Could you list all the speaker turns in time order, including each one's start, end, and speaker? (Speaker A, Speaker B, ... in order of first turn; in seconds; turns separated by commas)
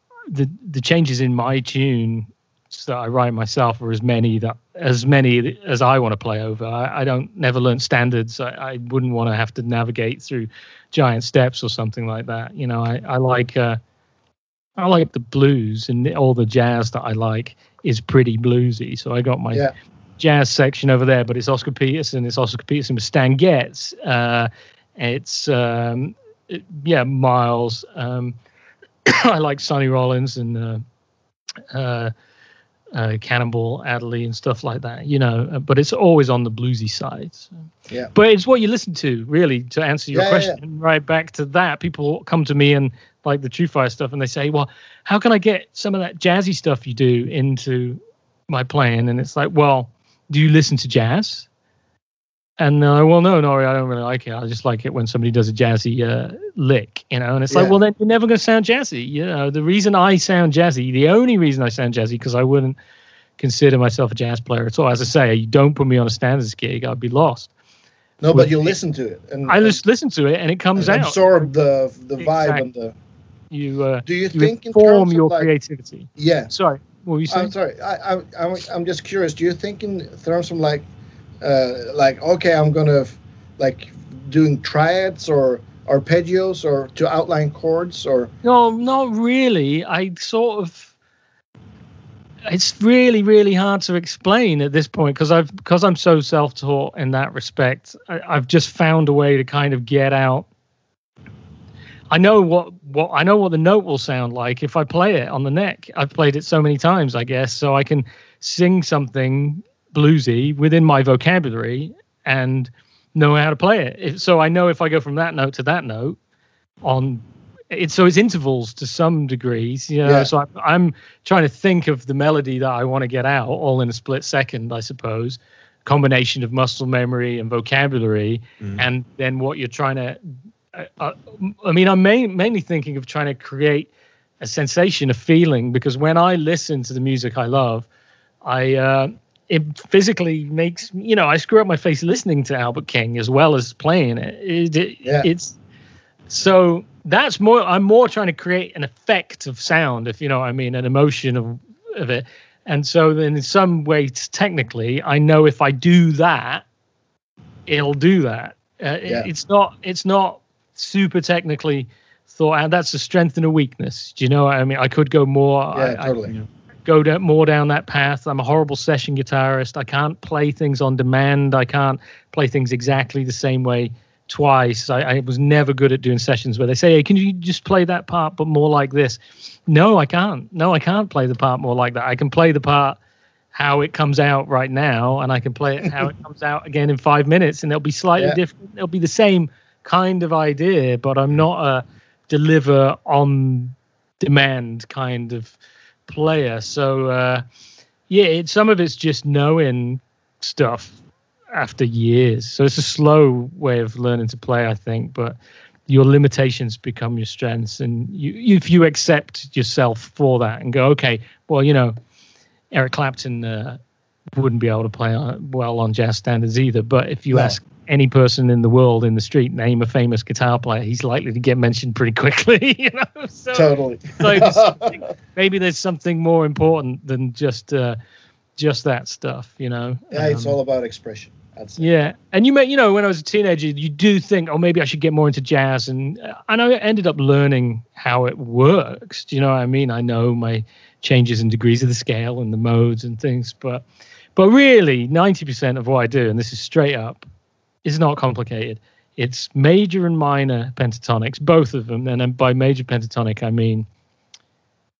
Speaker A: 0.3-13.8, Speaker A: 14.8-19.7, Speaker A: 20.2-28.4, Speaker A: 29.0-30.8, Speaker A: 31.7-32.1, Speaker A: 32.9-37.5, Speaker A: 38.1-51.5, Speaker B: 40.1-40.6, Speaker A: 52.6-62.8, Speaker A: 63.4-67.5, Speaker B: 68.2-69.8, Speaker A: 68.3-68.7, Speaker A: 69.5-71.5, Speaker B: 70.8-72.9, Speaker A: 72.2-72.6, Speaker A: 73.5-77.5, Speaker B: 74.0-75.5, Speaker B: 76.2-76.5, Speaker B: 77.3-80.8, Speaker B: 81.4-88.3, Speaker A: 88.4-90.9, Speaker A: 92.5-100.5, Speaker A: 102.1-116.2, Speaker A: 116.8-130.2, Speaker B: 120.0-120.3, Speaker A: 130.7-137.9, Speaker A: 138.4-145.6, Speaker A: 146.3-156.6, Speaker A: 157.7-166.1, Speaker B: 165.7-166.3, Speaker A: 166.8-183.0, Speaker A: 183.5-195.6, Speaker A: 196.1-197.4, Speaker A: 198.1-201.0, Speaker A: 201.5-205.4, Speaker A: 205.9-211.9, Speaker A: 212.7-213.8, Speaker A: 214.3-228.0, Speaker B: 217.3-217.6, Speaker B: 223.5-225.0, Speaker A: 228.6-230.6, Speaker B: 230.1-231.9, Speaker A: 231.8-243.8, Speaker A: 244.3-247.2, Speaker A: 247.8-253.9